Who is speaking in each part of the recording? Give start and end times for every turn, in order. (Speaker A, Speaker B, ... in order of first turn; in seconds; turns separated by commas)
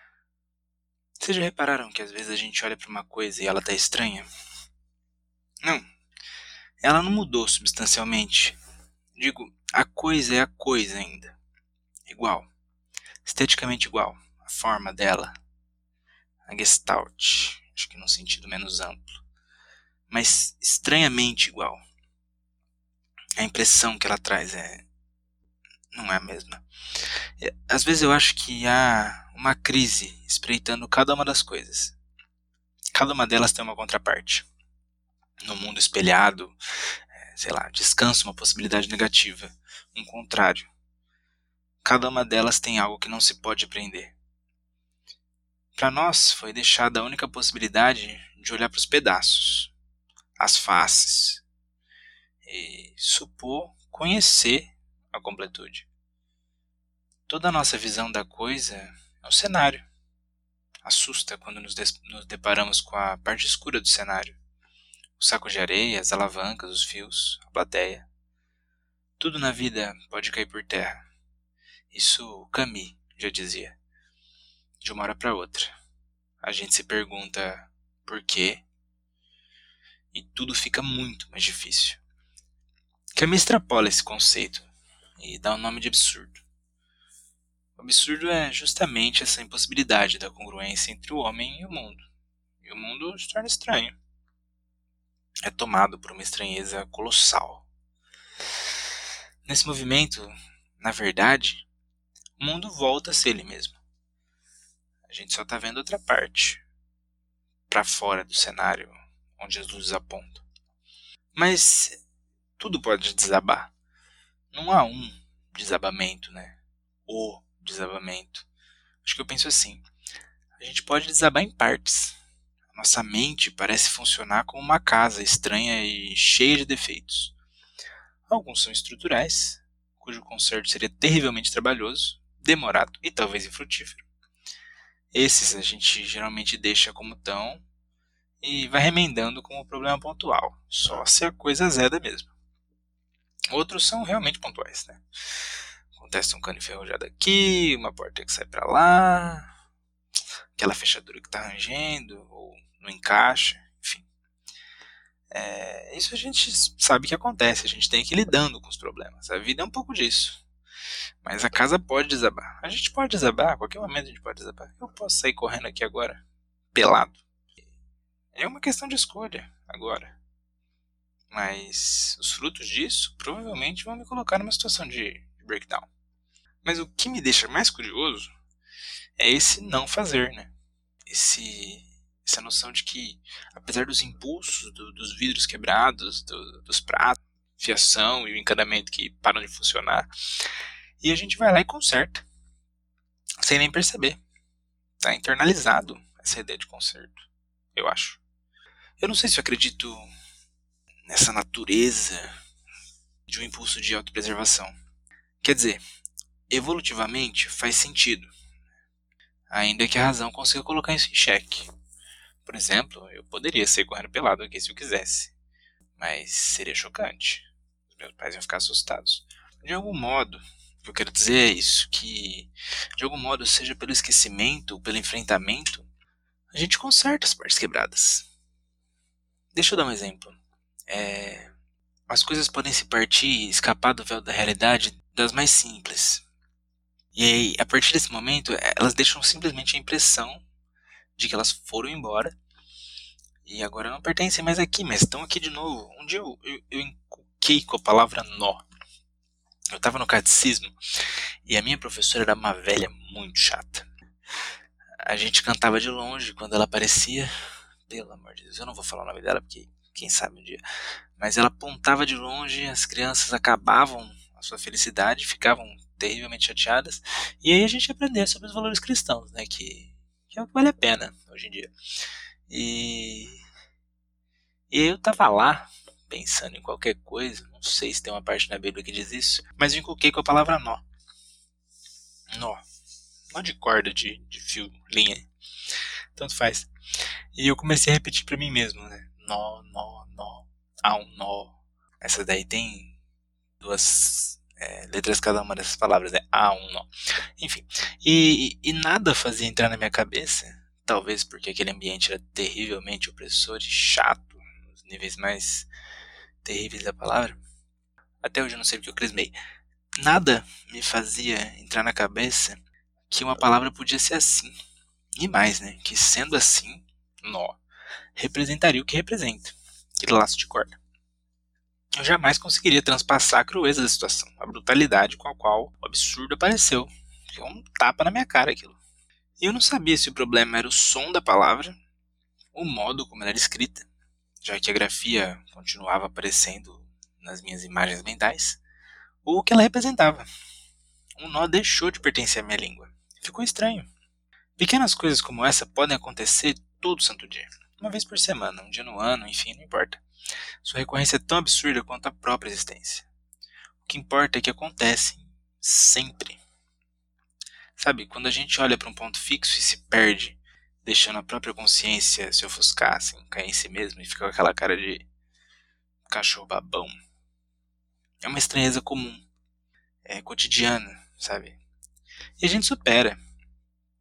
Speaker A: 1.2-4.3, Speaker A: 6.8-8.6, Speaker A: 9.2-11.3, Speaker A: 12.1-12.5, Speaker A: 13.2-15.3, Speaker A: 16.5-19.2, Speaker A: 20.1-21.8, Speaker A: 23.4-24.9, Speaker A: 25.9-26.6, Speaker A: 27.4-31.9, Speaker A: 32.9-34.5, Speaker A: 35.4-36.6, Speaker A: 37.2-40.7, Speaker A: 41.8-44.1, Speaker A: 45.7-49.7, Speaker A: 50.4-51.4, Speaker A: 52.4-55.9, Speaker A: 57.3-59.9, Speaker A: 60.8-64.4, Speaker A: 65.2-68.1, Speaker A: 69.2-71.0, Speaker A: 71.9-73.8, Speaker A: 74.8-75.7, Speaker A: 76.4-78.6, Speaker A: 80.1-82.0, Speaker A: 83.2-86.4, Speaker A: 87.8-92.0, Speaker A: 92.6-94.0, Speaker A: 95.4-97.7, Speaker A: 99.4-101.7, Speaker A: 102.4-103.8, Speaker A: 105.1-106.6, Speaker A: 107.7-110.4, Speaker A: 111.3-112.0, Speaker A: 112.6-113.7, Speaker A: 114.5-118.5, Speaker A: 119.0-119.8, Speaker A: 120.6-122.2, Speaker A: 122.7-127.3, Speaker A: 128.3-134.0, Speaker A: 135.1-137.6, Speaker A: 138.4-142.3, Speaker A: 143.5-145.0, Speaker A: 145.9-149.5, Speaker A: 150.6-154.1, Speaker A: 155.3-160.4, Speaker A: 161.2-166.2, Speaker A: 166.7-167.2, Speaker A: 168.3-170.2, Speaker A: 171.3-175.9, Speaker A: 176.6-178.3, Speaker A: 179.2-180.5, Speaker A: 181.1-190.1, Speaker A: 191.0-192.2, Speaker A: 193.4-194.2, Speaker A: 195.0-198.2, Speaker A: 199.0-200.1, Speaker A: 201.1-202.3, Speaker A: 203.3-204.7, Speaker A: 205.4-205.8, Speaker A: 206.5-208.3, Speaker A: 209.5-211.7, Speaker A: 212.4-215.3, Speaker A: 216.0-225.9, Speaker A: 226.5-228.3, Speaker A: 229.5-230.4, Speaker A: 230.9-231.5, Speaker A: 232.1-236.2, Speaker A: 237.1-240.4, Speaker A: 241.2-242.3, Speaker A: 243.4-248.6, Speaker A: 249.7-250.7, Speaker A: 251.4-253.8, Speaker A: 255.0-257.3, Speaker A: 257.9-260.6, Speaker A: 261.2-271.7, Speaker A: 272.5-273.4, Speaker A: 274.7-280.8, Speaker A: 282.3-282.6, Speaker A: 283.3-285.3, Speaker A: 286.1-286.7, Speaker A: 287.3-292.9, Speaker A: 293.6-305.7, Speaker A: 306.4-307.4, Speaker A: 308.2-309.3, Speaker A: 310.0-314.5, Speaker A: 315.2-317.6, Speaker A: 318.1-320.8, Speaker A: 321.9-328.8, Speaker A: 329.4-331.8, Speaker A: 332.5-333.9, Speaker A: 334.4-338.6, Speaker A: 339.2-340.3, Speaker A: 341.2-343.9, Speaker A: 344.6-350.0, Speaker A: 350.6-353.1, Speaker A: 353.8-356.4, Speaker A: 357.8-365.1, Speaker A: 366.1-366.9, Speaker A: 368.2-369.2, Speaker A: 370.0-371.6, Speaker A: 372.4-373.2